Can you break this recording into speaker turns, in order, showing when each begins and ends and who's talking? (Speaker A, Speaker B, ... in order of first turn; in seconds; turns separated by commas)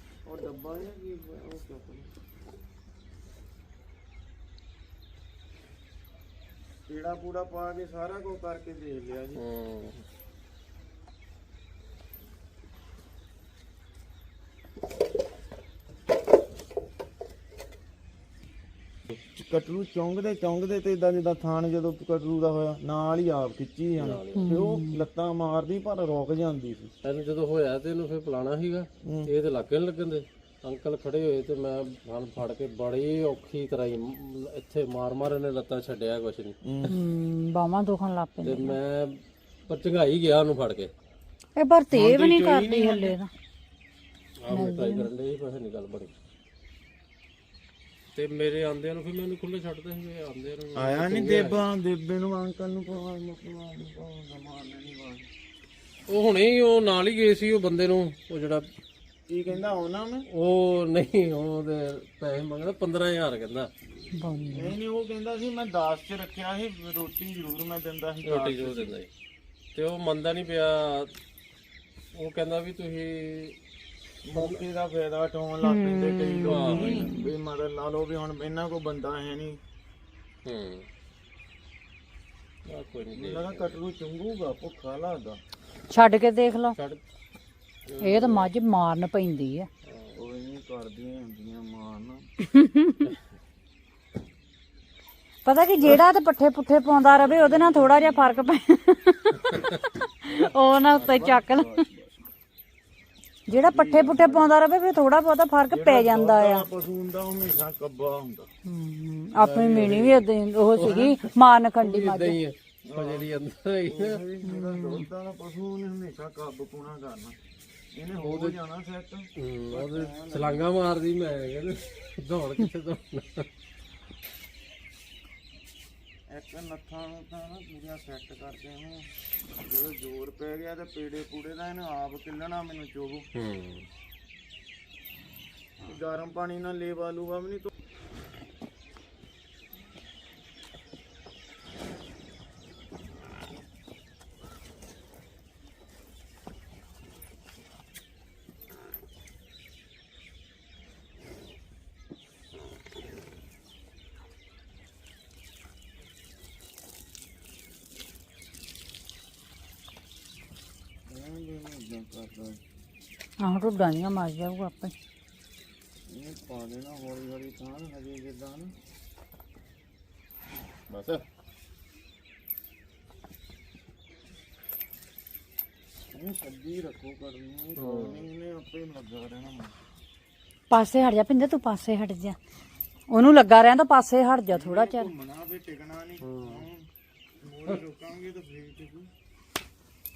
Speaker A: 0.3-2.1, Speaker A: 6.9-9.4, Speaker B: 9.4-10.0, Speaker A: 19.2-26.9, Speaker B: 24.0-24.5, Speaker C: 24.4-25.0, Speaker B: 27.0-36.5, Speaker A: 29.0-29.3, Speaker A: 36.6-37.0, Speaker C: 36.9-38.8, Speaker B: 38.4-40.9, Speaker C: 41.6-43.3, Speaker A: 41.9-43.1, Speaker B: 44.4-46.1, Speaker C: 44.5-45.1, Speaker B: 48.1-51.6, Speaker A: 50.8-55.3, Speaker B: 56.1-58.7, Speaker A: 59.3-60.3, Speaker B: 60.3-63.7, Speaker C: 64.1-64.8, Speaker A: 64.5-69.0, Speaker B: 68.2-69.1, Speaker B: 69.7-71.1, Speaker B: 72.1-73.6, Speaker A: 74.2-79.6, Speaker B: 74.3-74.6, Speaker C: 75.6-77.2, Speaker B: 76.5-77.0, Speaker B: 80.5-80.9, Speaker B: 82.7-83.8, Speaker A: 83.1-85.4, Speaker C: 85.9-86.8, Speaker B: 86.8-87.0, Speaker B: 87.9-88.5, Speaker C: 88.0-89.7, Speaker B: 89.8-90.1, Speaker A: 90.2-92.3, Speaker C: 92.4-93.1, Speaker C: 95.5-101.7, Speaker A: 97.5-98.1, Speaker B: 99.5-99.8, Speaker A: 100.9-102.2, Speaker C: 103.5-106.7, Speaker A: 103.5-104.5, Speaker A: 105.7-108.5, Speaker C: 108.7-112.4, Speaker B: 109.3-110.2, Speaker B: 110.8-114.2, Speaker A: 112.9-113.3, Speaker A: 113.9-117.4, Speaker C: 114.4-115.0, Speaker A: 117.9-120.7, Speaker B: 118.2-118.6, Speaker B: 119.4-123.5, Speaker A: 126.3-133.3, Speaker B: 133.3-133.9, Speaker A: 135.8-137.7, Speaker A: 161.1-162.6, Speaker C: 163.4-164.9, Speaker A: 166.1-168.7, Speaker A: 170.9-171.2, Speaker A: 176.1-179.8, Speaker B: 177.8-178.2, Speaker C: 180.7-182.4, Speaker C: 183.1-185.1, Speaker A: 184.5-186.9, Speaker B: 186.2-186.6, Speaker A: 187.4-189.1